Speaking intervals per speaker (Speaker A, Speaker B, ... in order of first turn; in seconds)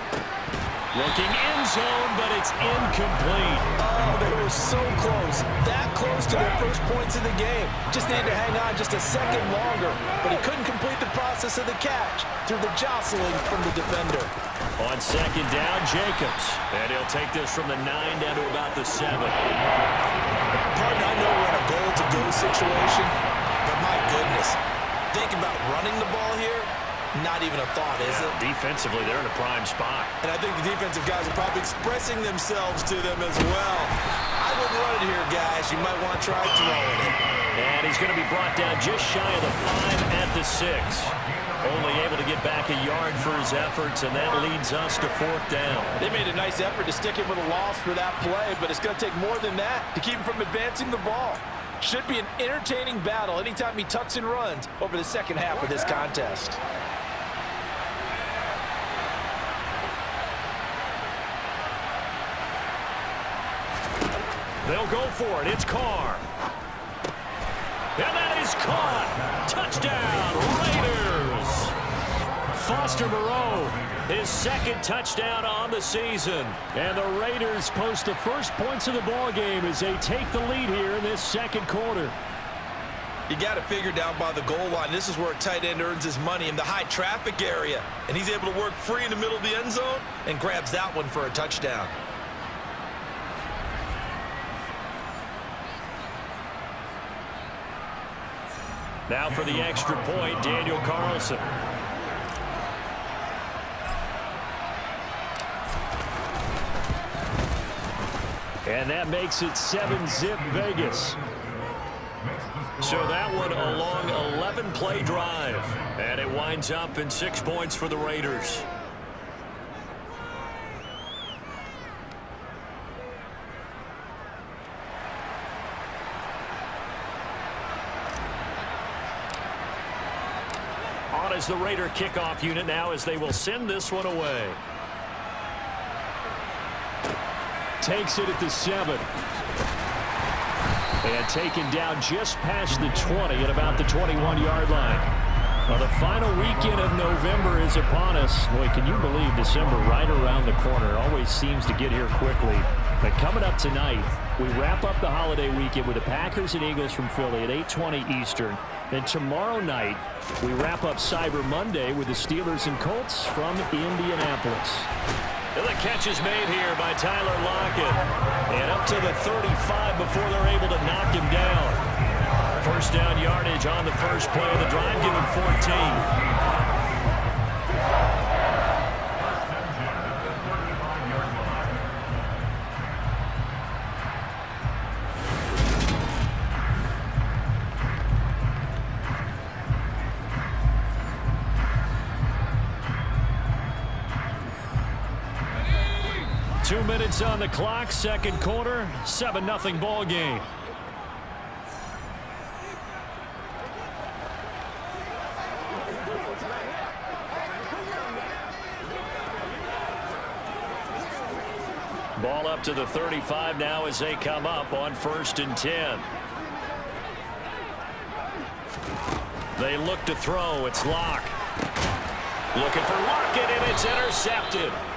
Speaker A: 0.9-3.7, 14.8-19.4, 28.0-30.1, 37.5-46.0, 64.6-66.3, 68.0-71.8, 72.5-82.2, 99.1-101.5, 108.7-111.2, 112.8-118.7, 131.1-134.6, 137.8-139.1, 141.0-145.1, 145.7-164.9, 165.6-171.8, 172.6-176.1, 196.6-200.5, 212.2-216.1, 219.6-221.4, 222.5-224.8
Speaker B: 3.8-14.3, 20.7-24.6, 25.1-28.4, 30.2-37.2, 46.0-56.6, 83.3-92.0